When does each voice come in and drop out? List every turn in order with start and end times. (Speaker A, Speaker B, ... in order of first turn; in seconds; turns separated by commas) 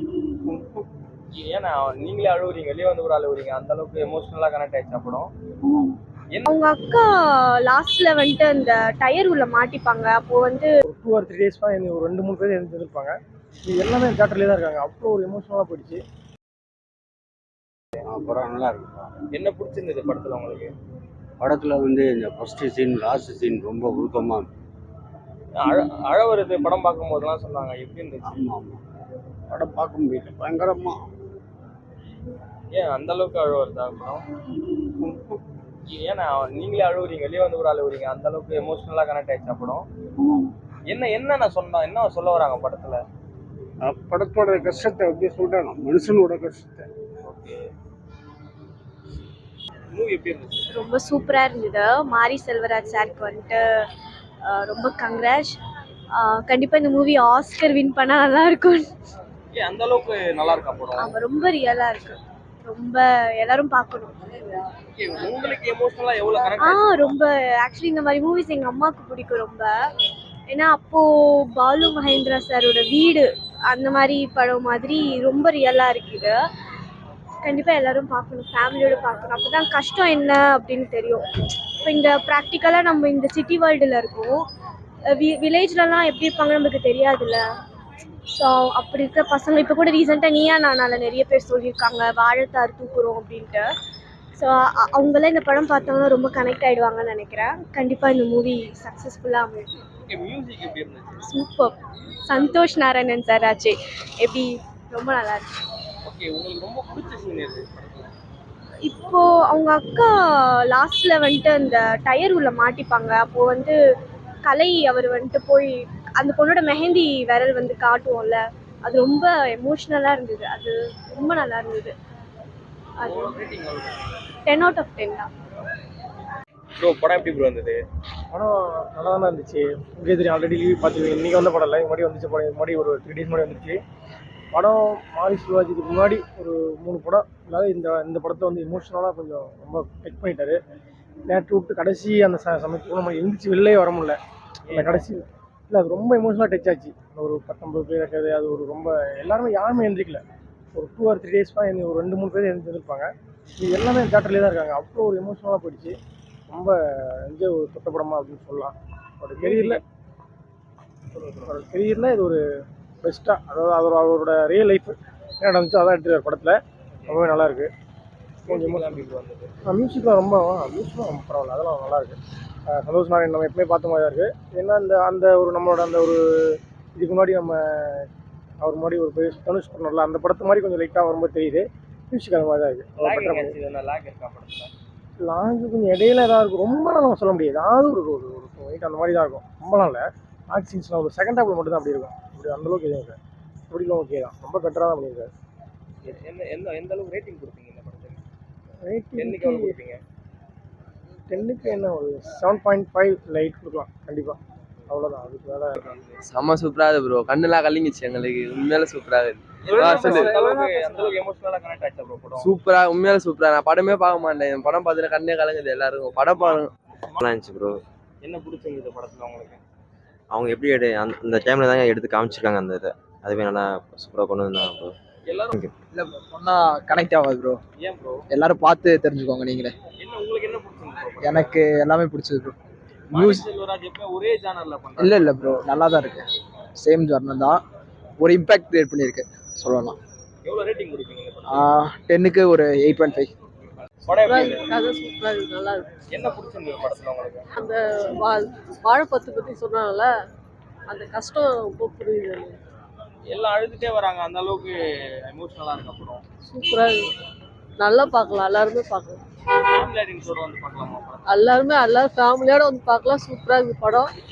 Speaker A: 1.3-5.3, Speaker B: 6.5-7.1, Speaker B: 7.7-10.7, Speaker C: 10.9-13.1, Speaker C: 13.7-16.0, Speaker D: 18.1-19.1, Speaker A: 19.3-20.7, Speaker D: 21.4-24.5, Speaker A: 25.6-28.4, Speaker D: 28.3-28.8, Speaker D: 29.5-31.0, Speaker A: 32.7-34.2, Speaker A: 35.9-39.9, Speaker A: 40.9-43.0, Speaker D: 43.8-46.9, Speaker A: 47.2-47.6, Speaker A: 49.9-50.7, Speaker B: 50.7-53.6, Speaker B: 54.5-55.6, Speaker B: 56.2-58.9, Speaker A: 59.5-61.1, Speaker B: 61.0-64.2, Speaker A: 64.9-67.1, Speaker B: 66.6-69.7, Speaker B: 70.5-76.4, Speaker B: 77.4-81.2, Speaker B: 81.8-84.4, Speaker B: 85.1-87.4, Speaker B: 88.3-93.7, Speaker B: 94.4-99.7, Speaker A: 100.0-101.2, Speaker B: 101.2-101.7, Speaker B: 102.3-105.5, Speaker A: 106.0-108.1, Speaker B: 108.9-110.1, Speaker B: 110.7-113.8, Speaker B: 114.4-121.9, Speaker B: 123.0-123.3, Speaker A: 123.0-124.0, Speaker B: 124.5-125.3, Speaker A: 126.8-127.8, Speaker C: 128.3-133.8, Speaker C: 134.5-140.6, Speaker C: 141.3-144.2, Speaker A: 144.7-145.1, Speaker C: 144.8-145.2, Speaker C: 145.7-150.2, Speaker C: 150.8-153.1, Speaker C: 153.6-155.9, Speaker C: 156.5-159.8, Speaker A: 159.4-159.8, Speaker A: 161.1-161.7, Speaker C: 161.6-162.4, Speaker C: 163.0-166.6, Speaker A: 167.0-167.4, Speaker C: 167.1-167.7, Speaker A: 168.5-169.5, Speaker C: 169.7-172.2, Speaker C: 172.7-176.2, Speaker C: 177.0-178.0, Speaker C: 178.6-183.5, Speaker A: 183.0-184.7, Speaker C: 185.2-193.2, Speaker C: 193.7-195.3, Speaker A: 196.0-198.2, Speaker C: 198.8-199.2, Speaker A: 199.2-200.0, Speaker C: 201.3-204.3, Speaker C: 204.9-205.7, Speaker A: 205.8-206.2, Speaker E: 206.2-210.3, Speaker A: 209.7-212.5, Speaker E: 212.4-216.7, Speaker A: 216.4-217.2, Speaker F: 217.2-217.8, Speaker A: 218.2-219.6, Speaker F: 220.3-224.9, Speaker A: 225.3-225.5, Speaker G: 225.9-227.6, Speaker A: 227.8-228.2, Speaker G: 228.3-229.8, Speaker A: 230.0-231.7, Speaker G: 231.2-232.6, Speaker A: 233.1-235.6, Speaker G: 233.1-233.4, Speaker G: 235.0-237.6, Speaker G: 238.2-240.0, Speaker A: 240.4-241.7, Speaker G: 241.5-243.3, Speaker A: 244.1-244.7, Speaker H: 244.2-245.9, Speaker A: 246.1-247.4, Speaker H: 247.6-250.1, Speaker H: 250.9-252.6, Speaker A: 253.3-256.2, Speaker H: 256.5-257.1, Speaker H: 257.8-259.2, Speaker A: 259.6-261.5, Speaker H: 261.2-264.1